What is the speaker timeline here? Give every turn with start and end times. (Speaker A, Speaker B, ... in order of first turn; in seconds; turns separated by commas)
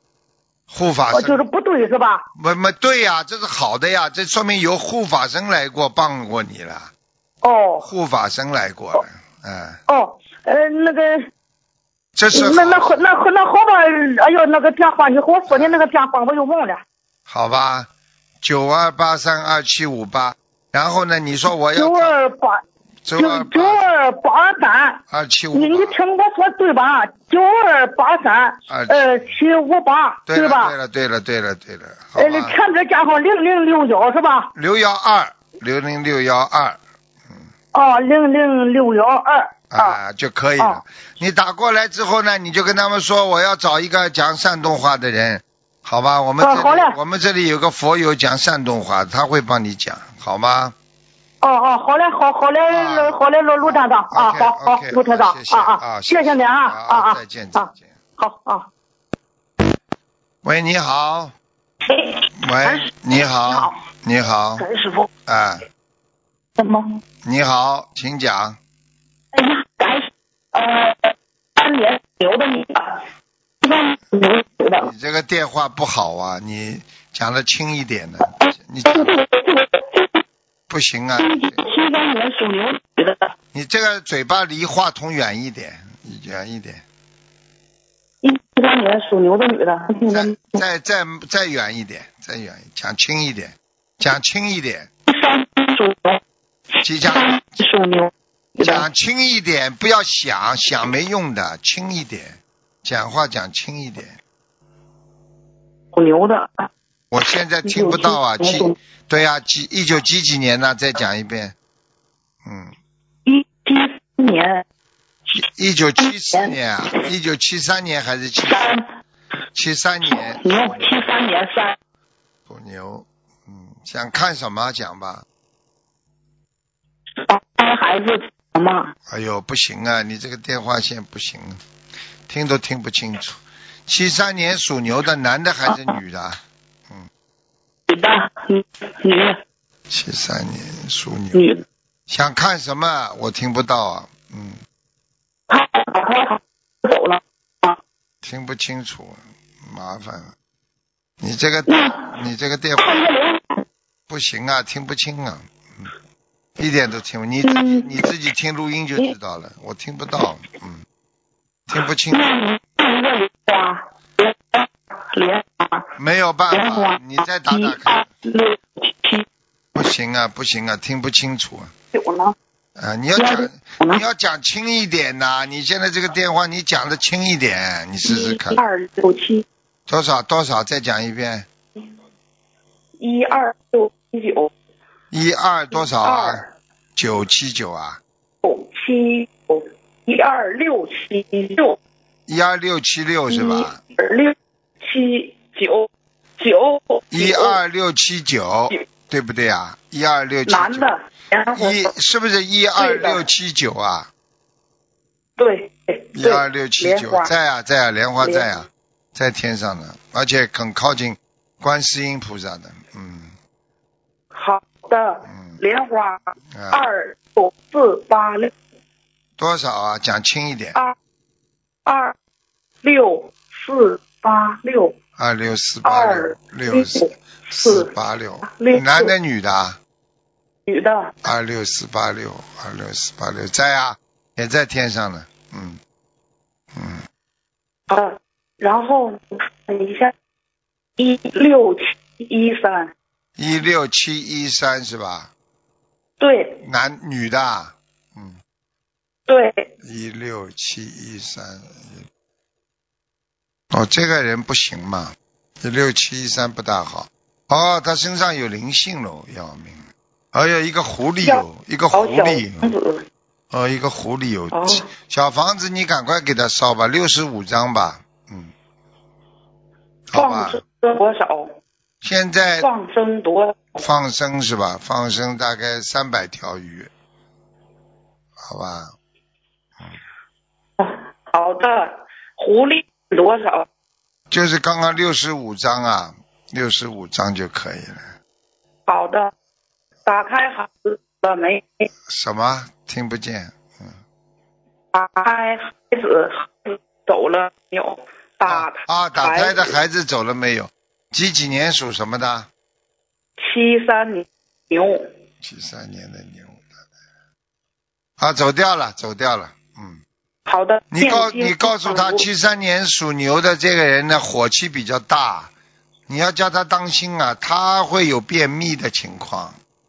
Speaker A: 0.7-1.4, Speaker B: 1.1-2.3, Speaker A: 2.4-6.9, Speaker B: 7.4-7.9, Speaker A: 7.8-9.8, Speaker B: 9.9-11.3, Speaker A: 12.2-13.1, Speaker B: 12.3-16.8, Speaker A: 15.5-15.9, Speaker A: 17.3-17.9, Speaker A: 18.4-22.1, Speaker B: 21.8-22.6, Speaker A: 23.1-23.9, Speaker B: 23.2-25.0, Speaker A: 25.1-25.9, Speaker B: 25.5-30.7, Speaker A: 28.7-29.3, Speaker A: 30.3-32.5, Speaker B: 32.2-34.5, Speaker A: 34.5-36.8, Speaker B: 37.7-40.0, Speaker A: 39.7-50.8, Speaker B: 46.4-47.0, Speaker B: 51.4-58.7, Speaker A: 52.7-57.9, Speaker A: 60.4-61.4, Speaker C: 61.9-62.9, Speaker A: 62.4-64.7, Speaker C: 63.5-63.8, Speaker C: 64.6-65.1, Speaker A: 65.3-65.7, Speaker C: 66.6-67.0, Speaker A: 67.2-68.6, Speaker C: 69.3-72.9, Speaker C: 73.6-74.9, Speaker A: 74.8-79.2, Speaker C: 78.9-80.0, Speaker A: 80.7-81.7, Speaker C: 81.2-83.3, Speaker A: 83.5-86.8, Speaker C: 88.2-90.6, Speaker A: 90.1-94.9, Speaker C: 95.1-96.2, Speaker A: 96.8-97.4, Speaker C: 97.1-98.9, Speaker A: 98.6-104.2, Speaker C: 105.9-106.7, Speaker A: 107.1-111.5, Speaker C: 107.7-108.8, Speaker A: 112.5-112.7, Speaker C: 113.3-114.6, Speaker A: 115.3-118.7, Speaker C: 116.0-116.5, Speaker C: 118.5-118.8, Speaker A: 119.5-121.0, Speaker C: 120.0-121.8, Speaker A: 122.5-125.2, Speaker C: 127.2-128.9, Speaker A: 129.1-131.6, Speaker A: 132.3-137.1, Speaker C: 135.7-136.0, Speaker C: 137.9-139.4, Speaker A: 139.9-141.5, Speaker C: 141.3-141.6, Speaker A: 142.1-144.6, Speaker C: 145.5-147.8, Speaker A: 148.2-150.3, Speaker A: 151.2-153.0, Speaker C: 151.7-152.1, Speaker C: 152.8-153.6, Speaker A: 154.1-155.9, Speaker A: 156.6-160.8, Speaker C: 157.4-158.0, Speaker A: 161.7-162.3, Speaker C: 162.1-165.9, Speaker A: 166.0-168.1, Speaker C: 166.5-169.2, Speaker A: 169.8-171.7, Speaker C: 171.9-172.3, Speaker A: 172.8-178.6, Speaker C: 173.2-174.0, Speaker C: 178.1-179.4, Speaker A: 179.9-181.5, Speaker C: 183.0-184.5, Speaker A: 185.1-186.4, Speaker C: 186.0-186.4, Speaker A: 187.0-188.0, Speaker C: 188.4-191.8, Speaker A: 192.3-193.8, Speaker C: 193.3-197.6, Speaker A: 197.1-200.9, Speaker C: 200.5-201.9, Speaker A: 201.5-204.1, Speaker C: 202.8-203.2, Speaker C: 205.4-207.3, Speaker A: 206.2-213.3, Speaker C: 208.2-208.5, Speaker C: 214.3-218.5, Speaker A: 215.3-215.6, Speaker A: 216.5-216.8, Speaker A: 219.4-220.8, Speaker C: 221.9-222.2, Speaker C: 222.8-224.9, Speaker A: 225.2-229.8, Speaker C: 225.8-227.9, Speaker C: 228.5-229.1, Speaker C: 230.7-231.1, Speaker A: 231.2-235.8, Speaker A: 236.7-237.0, Speaker C: 237.9-240.1, Speaker C: 241.0-242.9, Speaker A: 243.4-245.3, Speaker C: 246.2-246.6, Speaker A: 246.6-248.4, Speaker C: 249.3-249.7, Speaker A: 249.8-252.1, Speaker A: 253.7-262.7, Speaker C: 261.2-263.1, Speaker A: 263.5-268.5, Speaker C: 264.5-264.9, Speaker A: 270.1-270.6, Speaker C: 270.1-271.6, Speaker A: 272.0-272.7, Speaker C: 272.6-273.8, Speaker A: 273.8-276.9, Speaker A: 278.4-278.9, Speaker C: 280.8-283.7, Speaker A: 284.3-288.1, Speaker C: 288.9-289.3, Speaker C: 290.1-291.8, Speaker A: 292.1-294.0, Speaker C: 294.9-299.7, Speaker A: 298.5-302.5, Speaker C: 303.4-305.1, Speaker A: 305.4-306.7, Speaker A: 308.2-310.0, Speaker C: 310.5-312.2, Speaker A: 310.9-315.5, Speaker A: 316.1-319.6